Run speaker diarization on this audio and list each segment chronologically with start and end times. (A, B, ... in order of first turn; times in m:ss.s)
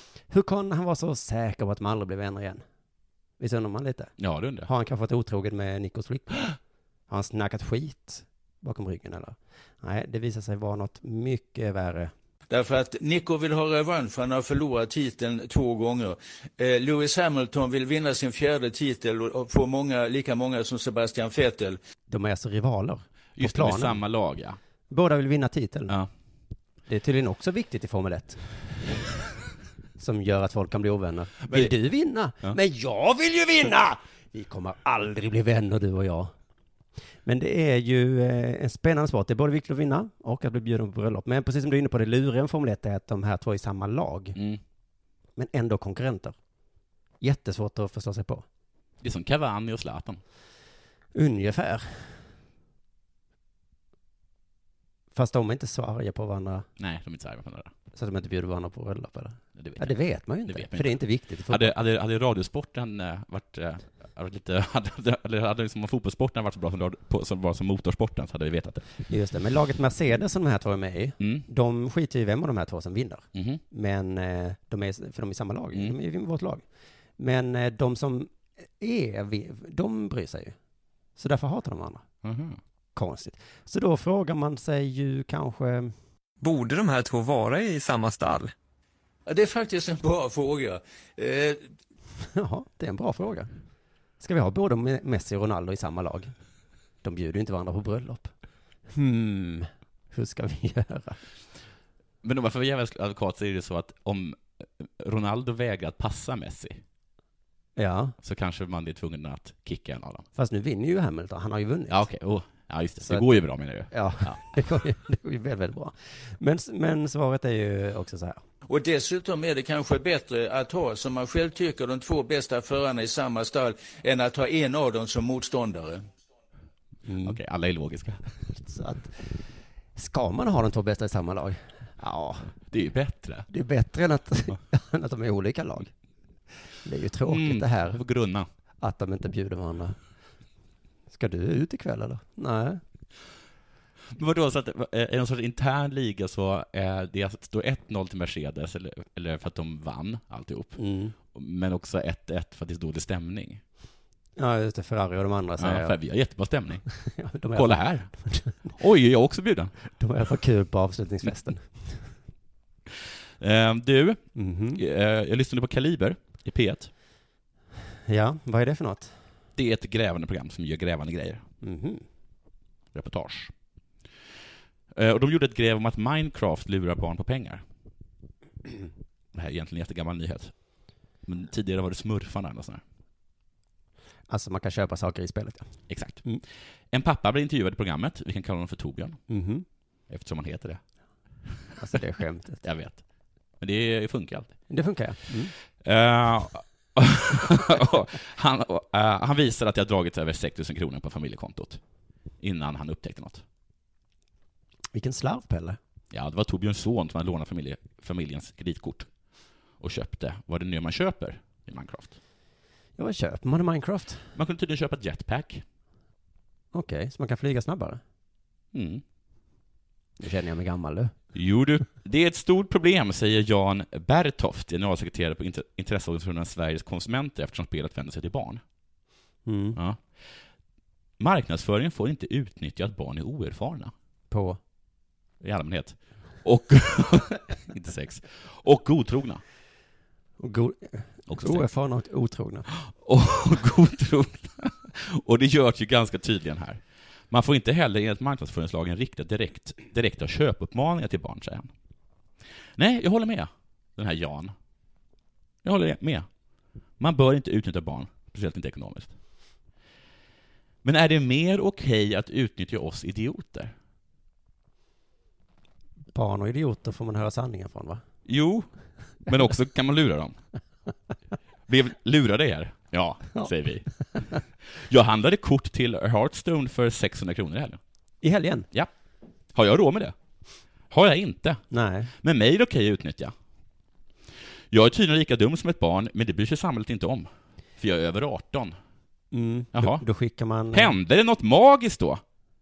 0:00.3-0:02.6 A
0:03.4-0:04.1 A
0:04.2-0:04.7 B
0:04.6-0:06.5 A
0:07.1-0:12.1 A
0:12.5-0:21.8 C
0:22.1-0:24.0 A
0:23.4-0:24.6 B
0:24.9-0:26.0 A
0:26.9-0:28.4 A
0:30.0-0:36.3 A
0:31.5-0:31.7 B
0:37.2-0:44.4 A
0:44.3-0:44.6 B
0:45.4-0:46.3 A
0:47.2-0:48.4 A
0:49.0-0:50.2 B
0:51.1-0:52.2 A
0:55.1-0:56.6 A
0:56.8-0:57.7 B
0:57.9-1:01.7 A
0:59.6-1:08.8 B
1:09.1-1:16.6 A
1:11.2-1:11.4 B
1:13.3-1:13.6 B
1:17.2-1:20.5 A
1:21.2-1:22.0 A
1:22.2-1:22.6 B
1:23.0-1:25.9 A
1:26.4-1:28.5 D
1:29.3-1:31.7 C
1:32.3-1:33.5 A
1:34.2-1:36.3 A
1:37.0-1:38.3 A
1:38.9-1:41.2 A
1:42.2-1:46.8 B
1:47.8-1:48.1 A
1:48.2-1:50.2 B
1:50.4-1:52.0 A
1:51.9-1:54.4 B
1:53.9-1:58.4 A
1:58.7-2:06.1 C
2:07.0-2:07.4 A
2:07.2-2:08.2 B
2:08.5-2:09.4 A
2:10.0-2:12.5 A
2:12.7-2:13.5 B
2:13.5-2:15.9 A
2:16.8-2:18.0 A
2:17.2-2:18.5 B
2:18.8-2:20.0 A
2:21.1-2:22.8 A
2:24.1-2:33.6 B
2:30.8-2:31.2 A
2:34.4-2:36.0 A
2:35.6-2:36.8 B
2:37.0-2:38.7 A
2:37.5-2:38.1 B
2:38.7-2:39.7 B
2:40.0-2:42.0 A
2:43.4-2:44.2 B
2:44.4-2:44.8 A
2:44.7-2:46.9 B
2:48.1-2:49.1 A
2:49.6-2:51.4 B
2:51.6-2:52.0 A
2:52.9-2:53.5 B
2:54.9-2:57.6 B
2:59.3-3:00.5 B
3:01.2-3:02.8 B
3:04.3-3:05.7 A
3:05.9-3:06.2 B
3:06.9-3:09.2 B
3:09.3-3:09.6 A
3:10.1-3:10.8 B
3:11.8-3:12.6 A
3:12.6-3:13.0 B
3:13.6-3:14.5 B
3:14.7-3:15.5 A
3:15.8-3:21.8 B
3:22.4-3:23.4 B
3:24.9-3:25.8 A
3:26.1-3:29.1 B
3:29.8-3:32.2 B
3:33.0-3:34.3 A
3:34.4-3:35.6 B
3:36.7-3:38.0 A
3:38.7-3:39.0 B
3:40.2-3:41.1 A
3:41.3-3:48.6 B
3:49.4-3:49.8 A
3:49.8-3:50.0 B
3:51.2-3:53.9 B
3:54.3-3:54.6 A
3:55.4-3:59.4 B
4:00.4-4:02.7 A
4:01.3-4:01.6 B
4:02.7-4:11.7 B
4:12.8-4:14.5 B
4:15.6-4:16.3 B
4:17.0-4:19.1 B
4:20.8-4:23.7 B
4:26.1-4:28.0 A
4:28.2-4:28.7 B
4:29.3-4:30.4 B
4:31.7-4:33.9 B
4:34.7-4:37.8 B
4:38.2-4:38.7 A
4:39.5-4:40.1 B
4:40.9-4:41.6 B
4:41.7-4:42.1 A
4:42.2-4:43.3 B
4:44.7-4:48.8 B
4:49.3-4:50.9 A
4:49.7-4:50.0 B
4:50.7-4:52.2 B